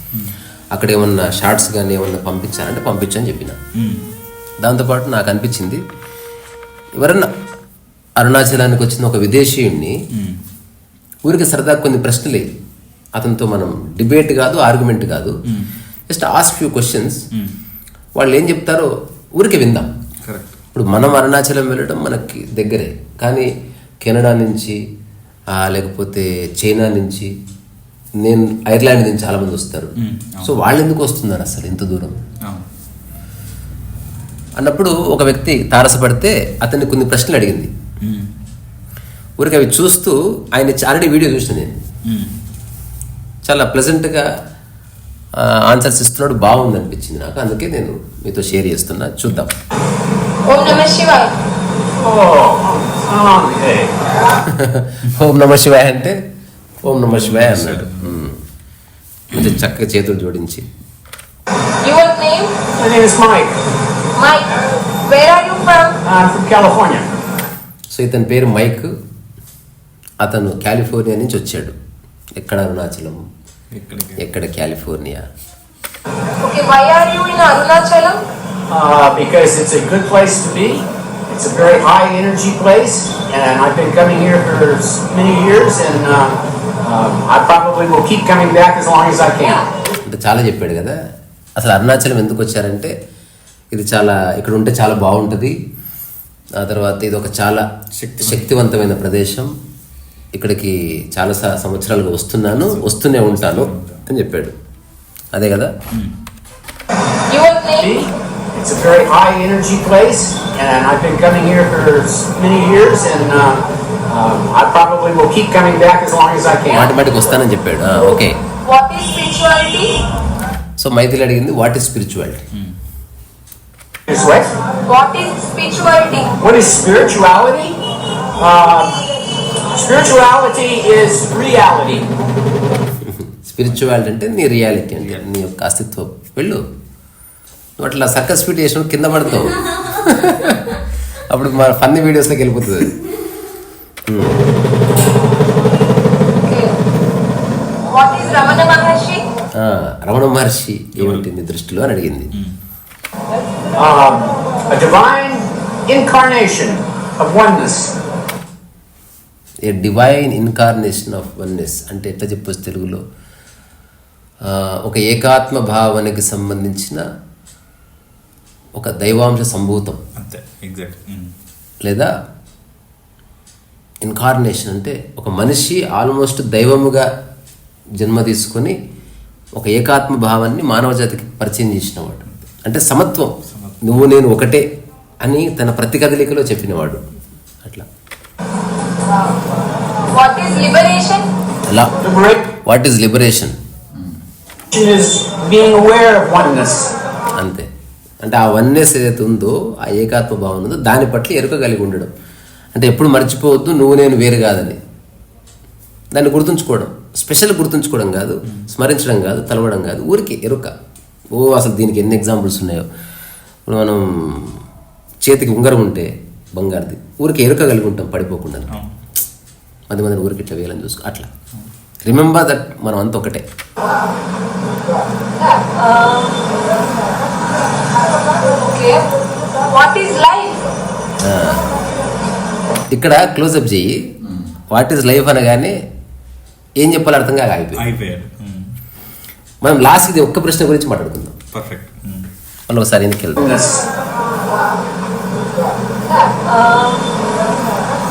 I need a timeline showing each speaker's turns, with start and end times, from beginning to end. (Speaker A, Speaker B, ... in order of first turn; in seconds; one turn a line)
Speaker A: 0.7-3.6
Speaker B: 3.7-4.1
Speaker A: 4.6-5.8
Speaker A: 7.0-7.3
Speaker A: 8.2-9.9
Speaker B: 10.1-10.4
Speaker A: 11.2-12.5
Speaker A: 13.1-15.3
Speaker A: 16.1-17.2
Speaker A: 18.1-19.9
Speaker B: 20.2-20.6
Speaker A: 20.7-23.5
Speaker A: 24.0-24.8
Speaker A: 25.5-27.3
Speaker A: 28.2-32.2
Speaker B: 30.0-30.6
Speaker A: 34.6-37.7
Speaker B: 38.0-38.4
Speaker A: 39.4-41.8
Speaker B: 42.0-42.3
Speaker A: 43.4-44.3
Speaker A: 45.4-49.5
Speaker C: 50.5-51.3
Speaker D: 52.0-54.0
Speaker A: 54.5-56.2
Speaker A: 56.8-58.4
Speaker B: 57.1-58.1
Speaker B: 59.3-59.6
Speaker A: 59.3-60.6
Speaker C: 61.8-62.5
Speaker D: 62.8-63.6
Speaker C: 64.2-66.0
Speaker D: 66.0-67.1
Speaker A: 67.9-68.9
Speaker A: 70.2-71.8
Speaker A: 72.3-73.2
Speaker B: 73.7-74.2
Speaker A: 74.2-75.2
Speaker C: 76.4-78.2
Speaker D: 78.7-89.7
Speaker A: 90.0-91.0
Speaker A: 91.5-92.9
Speaker A: 93.7-95.5
Speaker A: 96.6-97.6
Speaker B: 97.9-98.5
Speaker A: 98.2-99.5
Speaker A: 100.3-104.5
Speaker B: 102.5-104.0
Speaker A: 105.3-105.7
Speaker C: 107.3-108.0
Speaker D: 107.8-117.4
Speaker A: 116.7-118.4
Speaker C: 118.6-119.9
Speaker A: 120.8-122.4
Speaker D: 124.1-124.5
Speaker C: 124.9-126.3
Speaker D: 126.4-127.8
Speaker D: 128.4-129.0
Speaker D: 129.7-132.1
Speaker A: 133.0-136.6
Speaker A: 137.8-140.7
Speaker A: 141.3-142.9
Speaker A: 144.1-144.4
Speaker C: 146.4-146.7
Speaker C: 147.8-149.2
Speaker A: 149.6-152.3
Speaker B: 150.9-151.2
Speaker D: 153.8-157.9
Speaker A: 159.6-163.0
Speaker A: 164.4-167.0
Speaker A: 168.7-170.0
Speaker B: 170.2-171.3
Speaker A: 171.8-172.1
Speaker A: 174.0-177.1
Speaker A: 178.0-178.7
Speaker A: 179.5-184.6
Speaker B: 183.5-183.9
Speaker A: 185.2-187.0
Speaker C: 190.1-191.3
Speaker A: 191.7-192.0
Speaker D: 192.0-192.5
Speaker A: 192.6-193.6
Speaker D: 194.7-196.9
Speaker A: 197.4-197.7
Speaker A: 198.2-202.1
Speaker A: 202.7-204.8
Speaker A: 206.1-210.7
Speaker A: 211.3-212.8
Speaker A: 213.7-214.6
Speaker A: 215.2-218.7
Speaker A: 219.9-221.3
Speaker A: 222.0-223.4
Speaker C: 225.4-226.6
Speaker C: 228.4-229.1
Speaker C: 229.7-230.7
Speaker A: 231.2-231.6
Speaker A: 232.9-234.0
Speaker A: 234.7-235.7
Speaker A: 236.8-237.8
Speaker B: 237.8-238.7
Speaker A: 239.6-241.3
Speaker B: 241.5-242.3
Speaker A: 242.7-243.5
Speaker D: 243.4-243.8
Speaker C: 246.2-247.2